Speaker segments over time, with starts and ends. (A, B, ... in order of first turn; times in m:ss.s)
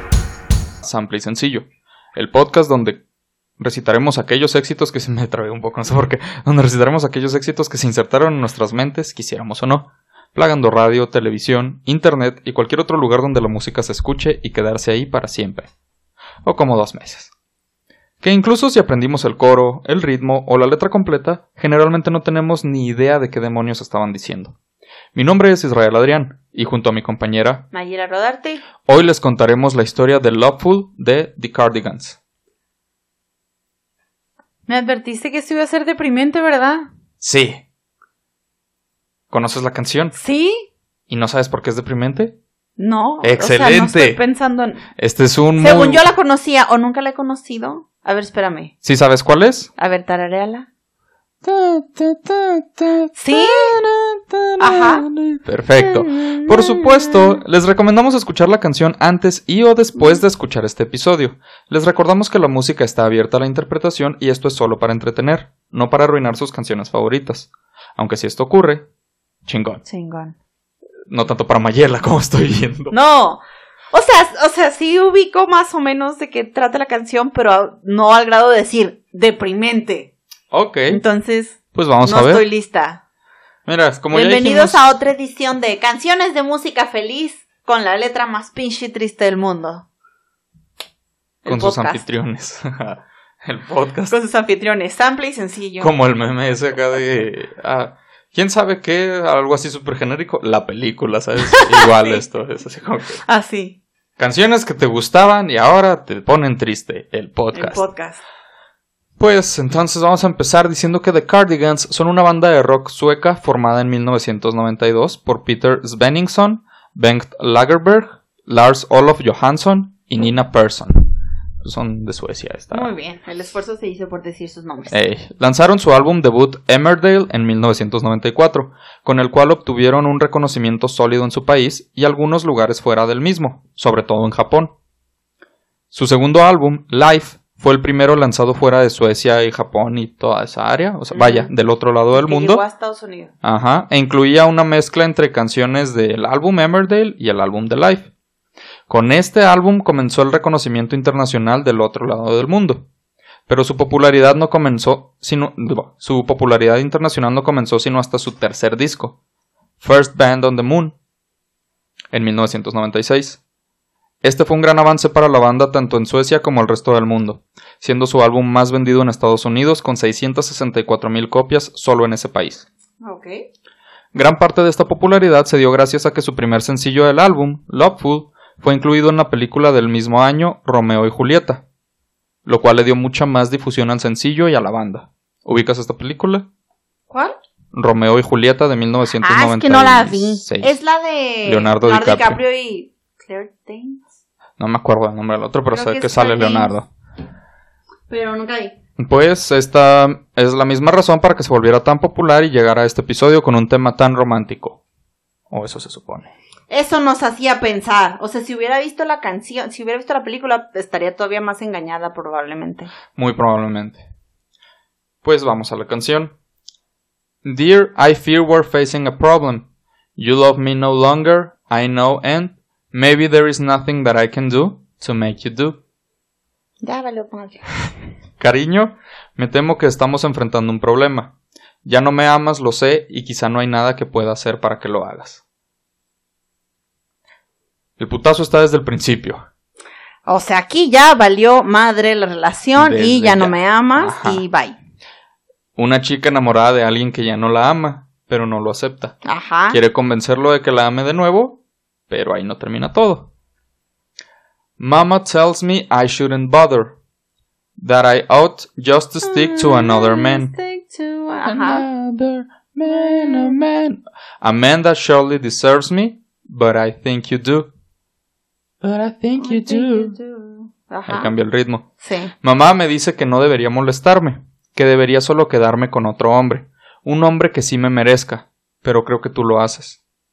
0:00.8-0:03.0 A
0:03.6-0:15.7 A
0:16.4-0:17.3 A
0:18.2-0:24.6 A
0:25.2-0:27.6 A
0:27.7-0:28.6 B
0:28.8-0:32.2 A
0:34.7-0:36.9 B
0:37.2-0:37.6 A
0:39.3-0:40.2 A
0:40.1-0:40.7 B
0:41.1-0:42.4 A
0:42.8-0:44.8 B
0:43.2-0:44.2 A
0:45.0-0:46.1 A
0:45.6-0:48.7 B
0:48.8-0:49.7 A
0:49.8-0:50.7 B
0:51.4-1:08.9 A
0:53.2-0:53.8 B
0:54.6-0:55.1 B
0:55.8-0:57.4 B
1:09.5-1:09.8 A
1:09.8-1:10.4 B
1:11.1-1:13.0 A
1:12.9-1:20.1 B
1:20.5-1:21.0 A
1:20.9-1:23.0 B
1:21.7-1:22.5 A
1:23.7-1:24.8 A
1:24.1-1:29.9 B
1:31.4-1:32.0 B
1:31.5-1:34.2 A
1:34.1-1:35.9 B
1:35.8-1:43.2 A
1:41.5-1:42.2 B
1:43.3-1:43.8 B
1:44.2-1:47.8 A
1:47.5-1:48.2 B
1:49.2-2:01.1 A
2:01.6-2:02.9 A
2:02.7-2:05.0 B
2:04.9-2:14.7 A
2:15.9-2:22.6 A
2:21.1-2:21.5 B
2:22.1-2:23.3 B
2:23.4-2:28.1 A
2:28.9-2:32.9 A
2:33.5-2:39.2 A
2:39.8-2:41.0 A
2:42.1-2:43.4 A
2:44.2-2:52.7 A
2:53.0-2:53.4 B
2:54.1-3:01.6 A
3:02.5-3:06.5 A
3:07.1-3:07.4 B
3:07.7-3:10.7 A
3:09.2-3:14.1 B
3:11.4-3:12.4 A
3:14.6-3:16.9 A
3:15.7-3:16.7 B
3:18.1-3:18.8 B
3:19.0-3:24.8 A
3:25.5-3:26.3 A
3:26.7-3:32.9 B
3:33.2-3:34.0 A
3:35.2-3:36.3 A
3:37.4-3:45.8 A
3:46.8-3:47.7 B
3:48.4-3:55.4 A
3:58.0-3:59.4 A
4:00.3-4:04.8 B
4:02.8-4:04.4 A
4:05.8-4:09.2 A
4:09.2-4:09.8 B
4:09.7-4:13.3 A
4:14.8-4:17.0 A
4:17.8-4:20.5 A
4:19.2-4:21.9 B
4:21.4-4:27.7 A
4:22.8-4:23.6 B
4:28.8-4:30.2 A
4:29.4-4:31.3 B
4:31.1-4:31.9 A
4:32.0-4:32.3 B
4:32.4-4:40.0 A